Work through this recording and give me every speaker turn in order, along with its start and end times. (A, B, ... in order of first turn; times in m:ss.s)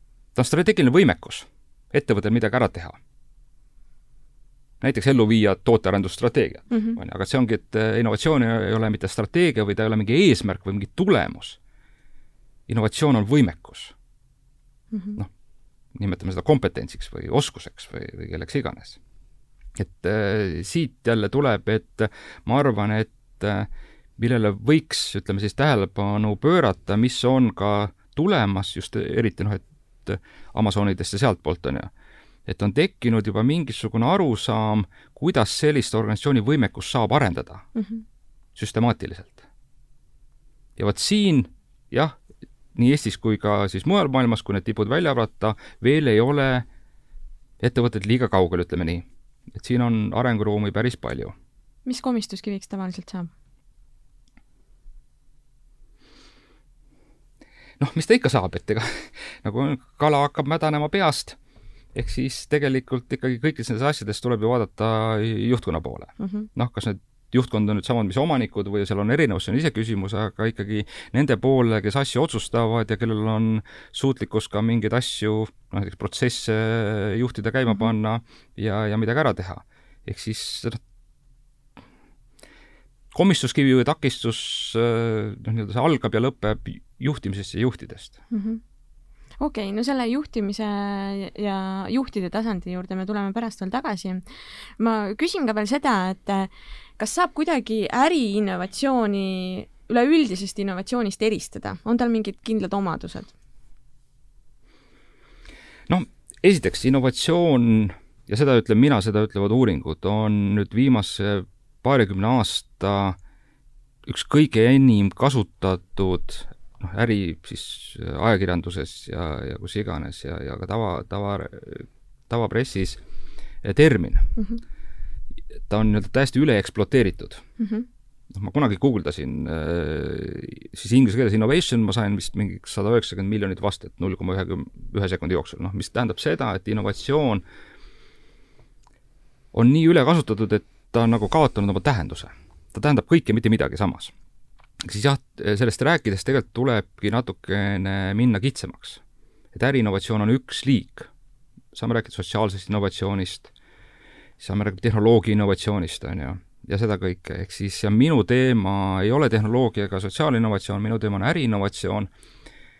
0:00.3-0:03.0 A
0:04.8-0:11.6 A
0:06.7-0:07.0 B
0:12.7-0:13.9 A
0:14.9-0:15.2 B
0:15.9-0:19.0 A
0:19.8-0:31.9 A
0:32.5-0:37.7 A
0:37.8-0:38.0 B
0:38.6-0:39.4 A
0:40.8-0:42.1 A
0:42.7-0:46.6 A
0:47.6-0:51.3 A
0:51.8-0:53.3 B
0:57.8-1:01.4 A
1:01.9-1:20.8 A
1:06.2-1:06.5 B
1:23.1-1:28.2 A
1:28.3-1:28.6 B
1:29.4-1:34.2 B
1:34.8-1:43.3 B
1:45.9-1:53.2 A
1:54.0-2:03.0 A
2:03.6-2:04.3 A
2:05.7-2:07.4 A
2:07.6-2:07.8 B
2:08.3-2:17.4 A
2:19.5-2:24.1 A
2:24.8-2:29.0 A
2:29.5-2:31.1 A
2:31.7-2:33.5 A
2:34.4-2:42.1 A